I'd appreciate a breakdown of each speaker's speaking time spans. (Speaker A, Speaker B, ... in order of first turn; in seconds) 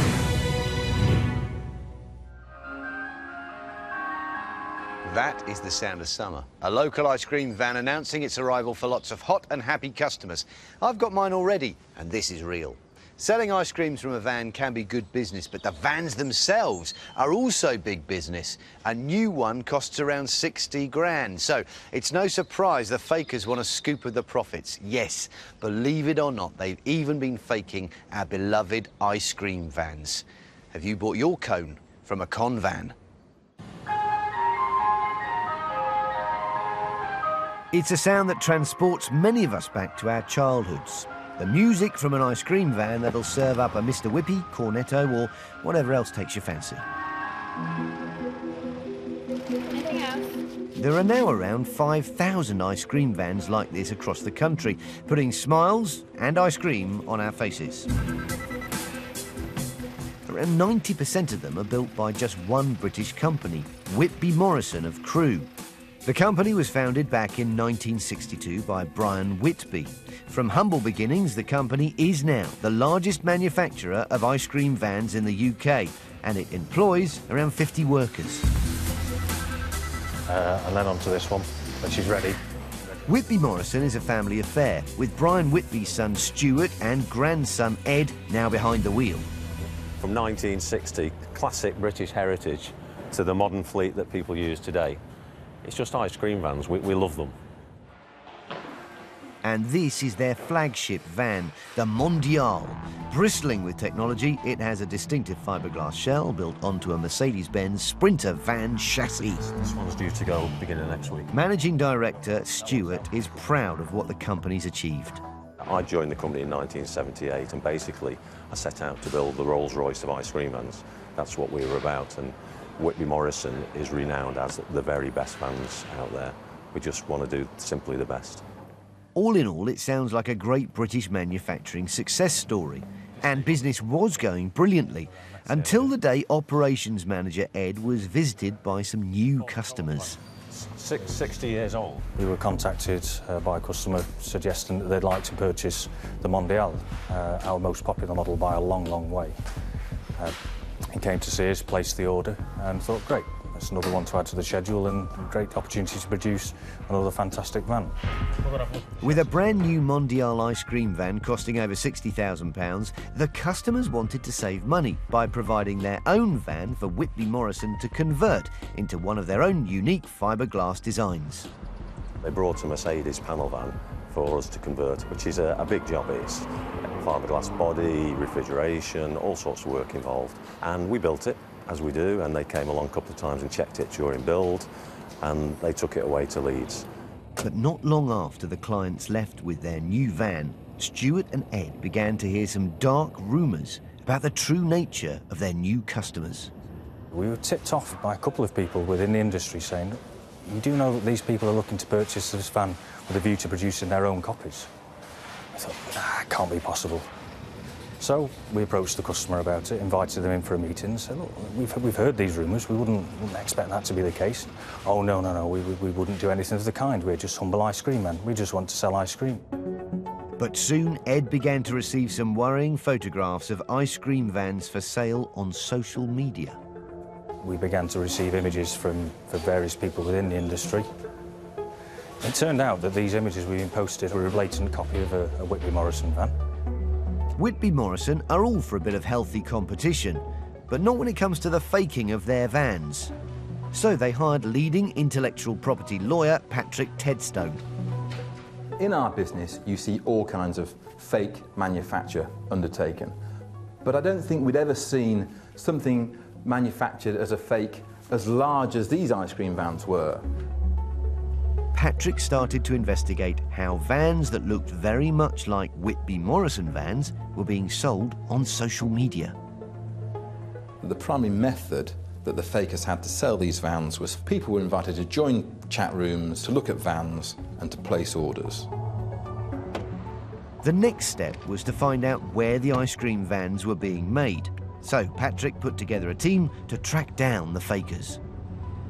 Speaker A: 5.0-33.0, 37.7-46.9, 50.8-57.9, 60.3-65.5, 66.0-78.5, 83.1-89.3, 99.4-109.5, 111.3-115.2, 129.2-140.2, 159.0-171.5, 187.4-196.5, 220.4-226.6, 237.4-243.1, 243.7-247.6, 261.7-269.4, 280.6-288.2
Speaker B: 80.3-82.4, 135.5-135.9, 140.6-149.4, 150.9-157.9, 197.1-204.7, 205.6-207.1, 208.0-219.5, 227.4-230.9, 232.2-236.3
Speaker C: 90.0-95.0, 95.6-97.3, 109.8-111.2, 115.6-128.4, 172.2-176.5, 177.0-184.7, 185.2-186.9
Speaker D: 248.8-253.2, 253.8-260.3, 270.8-278.7